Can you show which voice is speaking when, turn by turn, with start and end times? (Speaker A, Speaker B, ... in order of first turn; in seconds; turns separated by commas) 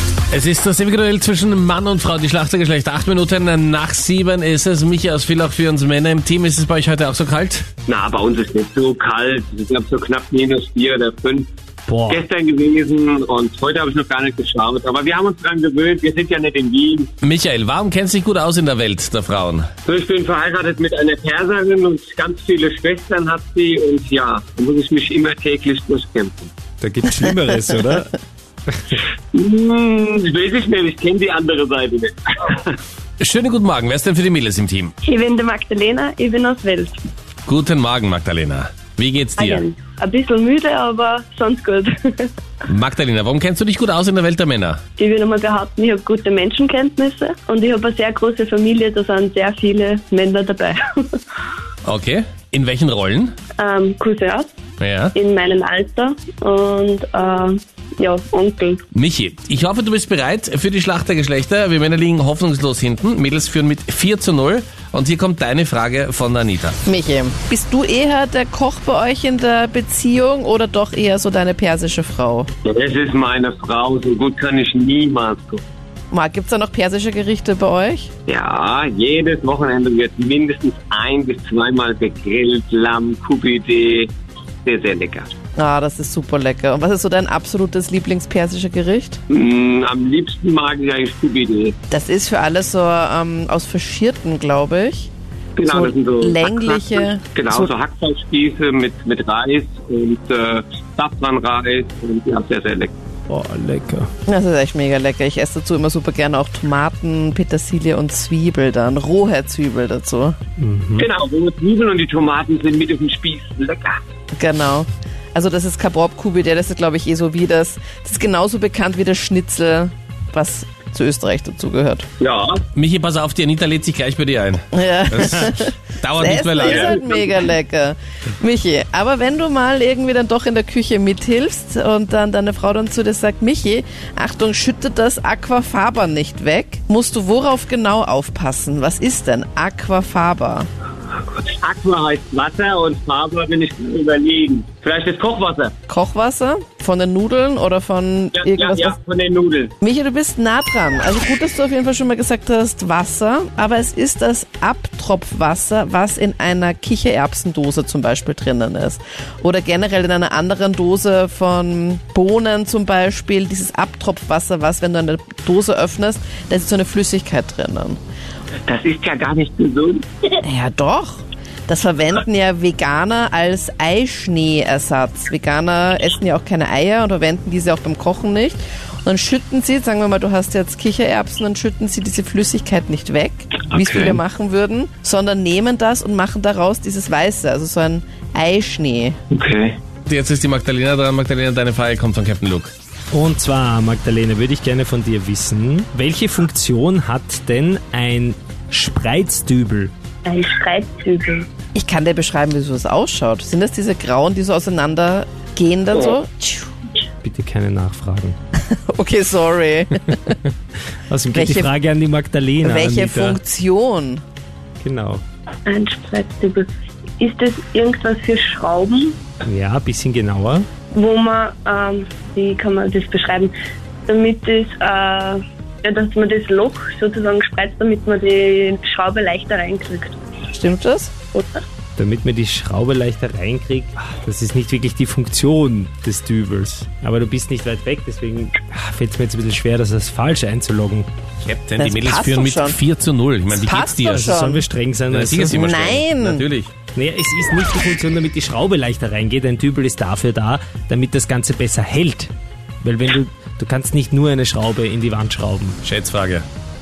Speaker A: 0.3-7.7, Speaker B: 7.9-11.5, Speaker C: 11.9-12.2, Speaker B: 12.1-17.1, Speaker A: 17.2-19.7, Speaker B: 19.9-26.5, Speaker C: 26.8-28.2, Speaker B: 29.3-32.8, Speaker A: 33.2-34.9, Speaker D: 35.0-37.0, Speaker A: 37.5-39.6, Speaker D: 39.4-42.3, Speaker A: 42.7-44.8, Speaker D: 45.0-51.1, Speaker A: 51.8-53.3, Speaker D: 53.6-54.5, Speaker A: 54.8-55.1, Speaker D: 55.1-58.8, Speaker A: 58.9-66.8, Speaker E: 66.8-72.5, Speaker B: 72.7-75.6, Speaker E: 76.1-78.1, Speaker B: 78.3-84.1, Speaker B: 84.7-85.3, Speaker E: 85.6-89.2, Speaker B: 89.3-91.8, Speaker E: 91.9-95.1, Speaker B: 95.6-102.9, Speaker E: 95.7-97.7, Speaker C: 103.3-104.1, Speaker E: 104.3-110.4, Speaker C: 110.6-111.1, Speaker B: 111.0-114.0, Speaker E: 114.4-122.1, Speaker B: 122.2-122.6, Speaker A: 122.8-127.0, Speaker E: 124.7-140.7, Speaker B: 126.6-127.1, Speaker B: 141.4-145.7, Speaker E: 145.9-149.0, Speaker B: 148.3-149.7, Speaker E: 149.8-168.0, Speaker B: 168.7-170.0, Speaker E: 170.4-189.2, Speaker B: 183.7-184.2, Speaker B: 189.3-189.8, Speaker A: 190.1-192.7, Speaker C: 193.1-199.9, Speaker D: 200.2-201.5, Speaker E: 201.8-206.7, Speaker C: 207.2-208.4, Speaker E: 208.7-210.4, Speaker C: 211.1-213.4, Speaker E: 211.3-211.7, Speaker E: 212.6-214.2, Speaker C: 214.8-215.2, Speaker D: 215.7-216.7, Speaker D: 217.2-219.2, Speaker C: 219.4-220.7, Speaker D: 220.9-223.5, Speaker D: 224.1-230.2, Speaker E: 230.5-231.1, Speaker C: 232.0-241.1, Speaker A: 241.4-244.3, Speaker E: 241.8-242.8, Speaker E: 243.5-244.7, Speaker C: 244.1-245.6, Speaker A: 245.1-246.7, Speaker E: 245.5-246.4, Speaker C: 246.9-255.8, Speaker A: 255.8-256.4